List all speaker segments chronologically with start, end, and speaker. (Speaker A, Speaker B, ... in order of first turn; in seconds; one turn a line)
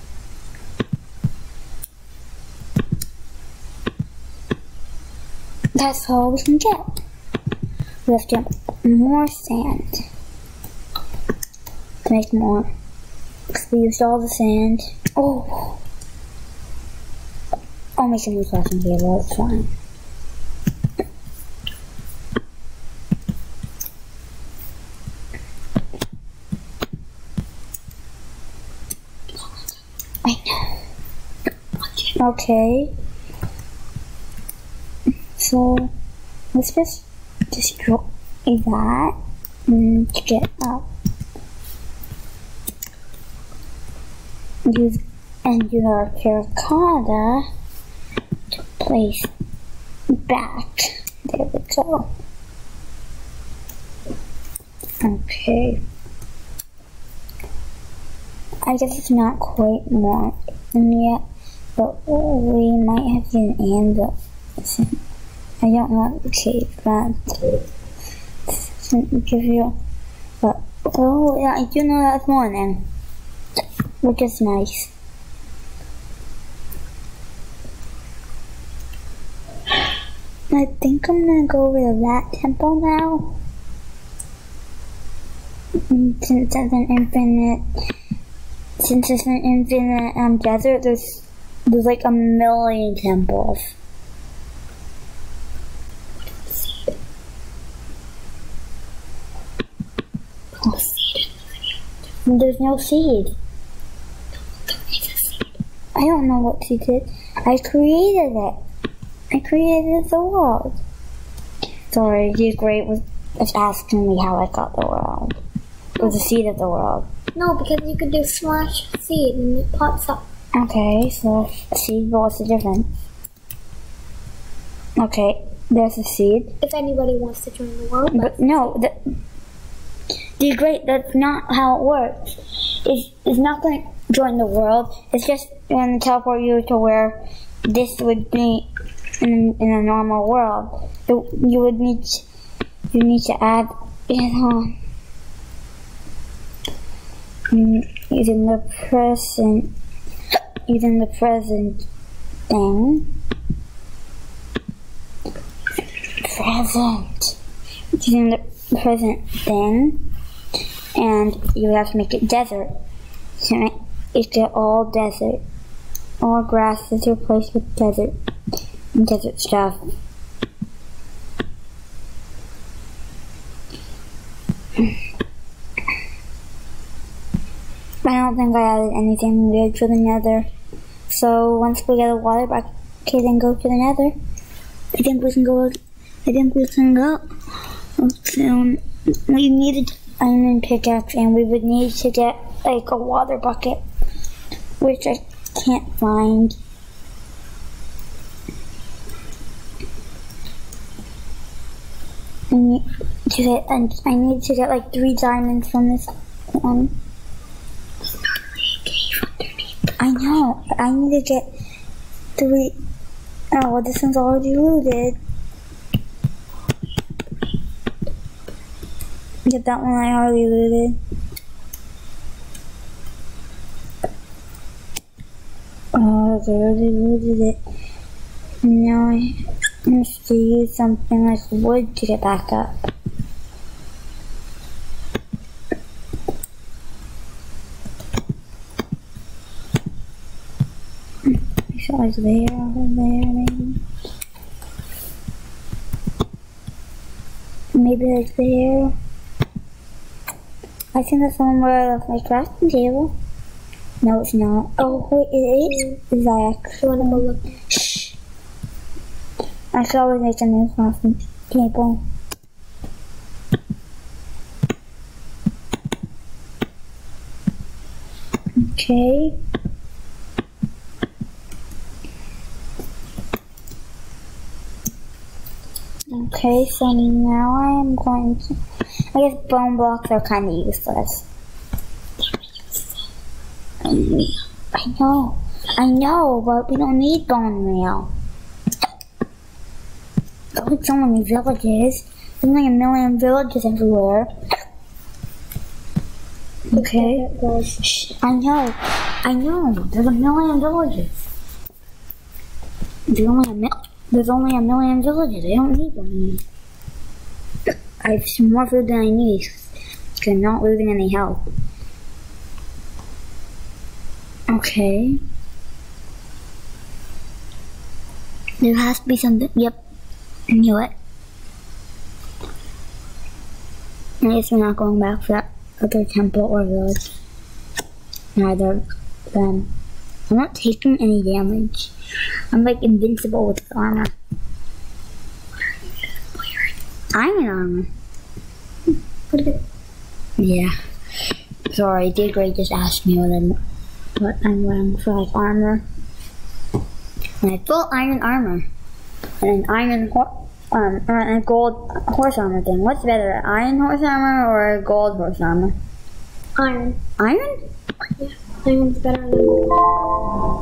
Speaker A: 5.8-6.9
Speaker A: 8.1-10.0
Speaker A: 12.0-12.7
Speaker A: 13.5-15.8
Speaker A: 18.0-19.7
Speaker A: 30.2-30.7
Speaker A: 32.0-32.9
Speaker A: 35.4-35.9
Speaker A: 36.5-39.1
Speaker A: 39.7-40.9
Speaker A: 44.7-47.5
Speaker A: 48.7-49.3
Speaker A: 50.1-52.1
Speaker A: 55.0-55.8
Speaker A: 58.6-61.2
Speaker A: 61.8-65.0
Speaker A: 65.6-67.6
Speaker A: 68.5-69.8
Speaker A: 70.4-72.8
Speaker A: 74.0-74.9
Speaker A: 80.5-83.4
Speaker A: 85.9-87.6
Speaker A: 88.8-93.7
Speaker B: 96.2-96.9
Speaker A: 100.6-101.0
Speaker A: 102.3-103.3
Speaker B: 104.6-105.5
Speaker A: 106.0-108.6
Speaker A: 109.3-110.8
Speaker A: 111.9-115.4
Speaker A: 116.0-117.1
Speaker B: 117.4-120.2
Speaker A: 120.5-122.9
Speaker A: 125.0-126.5
Speaker B: 126.6-128.8
Speaker A: 128.1-129.1
Speaker A: 130.4-138.7
Speaker A: 139.2-142.2
Speaker A: 142.9-144.7
Speaker A: 147.5-149.7
Speaker A: 150.7-151.9
Speaker A: 152.5-153.1
Speaker A: 156.2-157.4
Speaker A: 157.9-160.0
Speaker A: 160.9-162.7
Speaker A: 163.4-165.4
Speaker A: 166.2-168.1
Speaker A: 168.9-169.8
Speaker A: 178.0-180.5
Speaker A: 181.1-184.1
Speaker A: 184.9-187.2
Speaker A: 188.0-193.8
Speaker A: 194.8-196.6
Speaker A: 202.5-206.9
Speaker A: 210.0-211.5
Speaker A: 212.4-212.8
Speaker A: 213.5-215.2
Speaker A: 219.5-221.0
Speaker A: 225.9-227.6
Speaker A: 228.6-229.3
Speaker A: 229.9-232.9
Speaker A: 241.3-243.8
Speaker A: 247.8-248.9
Speaker A: 250.9-253.1
Speaker A: 254.0-258.2
Speaker B: 255.7-255.9
Speaker B: 256.8-257.4
Speaker A: 259.7-262.0
Speaker A: 268.6-269.4
Speaker A: 276.1-278.6
Speaker A: 279.1-281.2
Speaker A: 283.8-288.1
Speaker A: 290.5-294.3
Speaker A: 296.7-297.2
Speaker B: 296.7-297.8
Speaker A: 297.8-301.2
Speaker A: 303.1-306.4
Speaker A: 308.0-311.4
Speaker A: 314.5-315.2
Speaker A: 318.6-319.8
Speaker A: 320.5-320.9
Speaker A: 324.2-327.1
Speaker A: 328.4-329.7
Speaker A: 330.3-331.9
Speaker A: 332.5-334.1
Speaker A: 337.1-337.9
Speaker B: 339.3-339.6
Speaker A: 340.4-340.7
Speaker A: 341.7-343.6
Speaker A: 344.2-345.8
Speaker A: 347.4-348.7
Speaker A: 349.4-355.8
Speaker B: 356.6-357.0
Speaker A: 357.2-357.5
Speaker B: 358.2-359.9